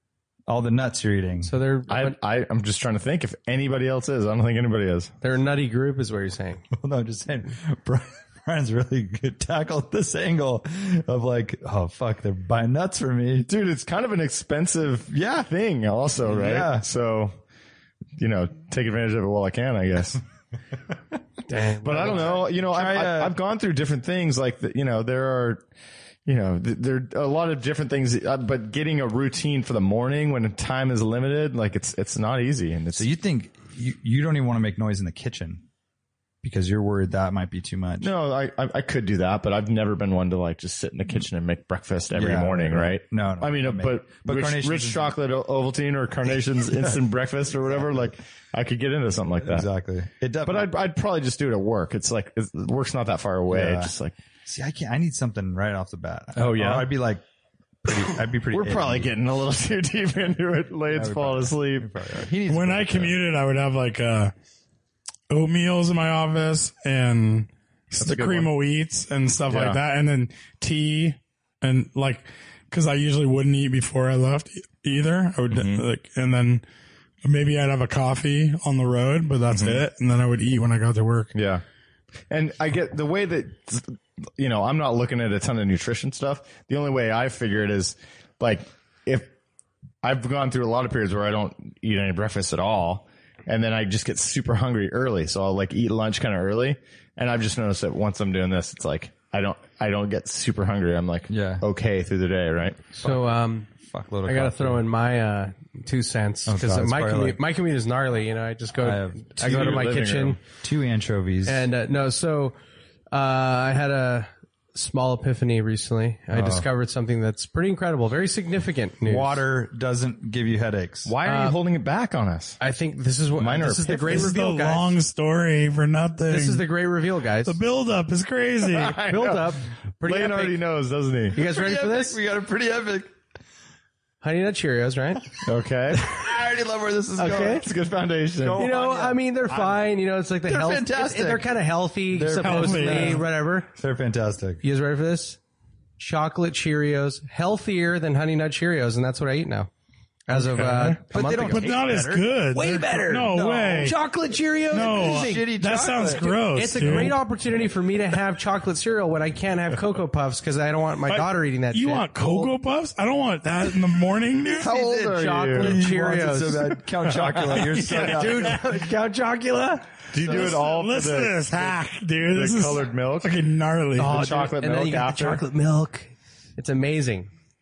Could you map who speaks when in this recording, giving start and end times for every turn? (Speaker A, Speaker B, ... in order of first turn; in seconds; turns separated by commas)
Speaker A: 0.5-1.5, Speaker B: 1.4-2.2, Speaker C: 1.9-5.1, Speaker B: 5.2-6.7, Speaker A: 6.7-13.5, Speaker C: 13.4-17.4, Speaker A: 15.1-15.5, Speaker A: 16.3-16.8, Speaker C: 18.2-20.2, Speaker B: 21.5-22.5, Speaker C: 21.8-25.6, Speaker A: 22.6-23.3, Speaker C: 26.2-33.1, Speaker A: 33.0-35.6, Speaker A: 36.4-38.1, Speaker C: 38.0-49.7, Speaker A: 42.1-45.1, Speaker A: 49.4-50.7, Speaker C: 50.4-54.1, Speaker A: 53.5-53.9, Speaker A: 54.4-57.2, Speaker C: 56.3-56.9, Speaker A: 57.8-59.1, Speaker C: 58.5-61.9, Speaker A: 60.9-63.2, Speaker D: 62.5-64.3, Speaker D: 65.3-76.6, Speaker C: 68.0-68.5, Speaker C: 69.5-69.8, Speaker C: 75.5-75.8, Speaker D: 77.2-81.3, Speaker C: 79.5-79.8, Speaker C: 81.3-81.6, Speaker C: 82.3-89.3, Speaker C: 90.0-102.8, Speaker A: 101.3-101.6, Speaker B: 102.9-103.7, Speaker A: 103.0-104.8, Speaker B: 104.2-110.4, Speaker A: 106.5-107.4, Speaker A: 108.8-109.8, Speaker C: 109.4-110.4, Speaker A: 110.6-111.6, Speaker B: 111.4-112.5, Speaker B: 113.1-119.4, Speaker A: 116.3-116.7, Speaker A: 119.0-121.1, Speaker C: 121.0-122.6, Speaker B: 121.2-121.5, Speaker B: 122.6-125.0, Speaker C: 123.3-124.3, Speaker D: 124.0-126.6, Speaker B: 126.3-127.6, Speaker D: 127.4-129.0, Speaker C: 128.7-131.4, Speaker B: 129.1-130.6, Speaker B: 131.3-132.2, Speaker A: 131.4-133.1, Speaker B: 134.2-135.4, Speaker C: 135.4-136.0, Speaker A: 136.1-137.7, Speaker B: 137.2-137.7, Speaker C: 137.3-138.6, Speaker A: 138.4-139.8, Speaker B: 138.6-143.8, Speaker A: 140.5-141.5, Speaker A: 142.1-143.2, Speaker D: 142.4-143.2, Speaker A: 143.8-144.6, Speaker B: 144.6-145.4, Speaker B: 146.0-149.7, Speaker B: 150.3-151.7, Speaker D: 150.3-153.9, Speaker A: 151.1-154.0, Speaker B: 152.5-155.5, Speaker A: 154.7-156.3, Speaker D: 154.7-157.2, Speaker B: 156.1-162.5, Speaker A: 156.8-157.1, Speaker D: 161.1-164.7, Speaker C: 164.6-165.8, Speaker A: 164.6-168.6, Speaker B: 164.9-169.8, Speaker D: 167.8-168.2, Speaker C: 170.1-173.3, Speaker D: 170.2-174.1, Speaker A: 170.2-170.5, Speaker B: 173.9-177.3, Speaker C: 174.0-175.4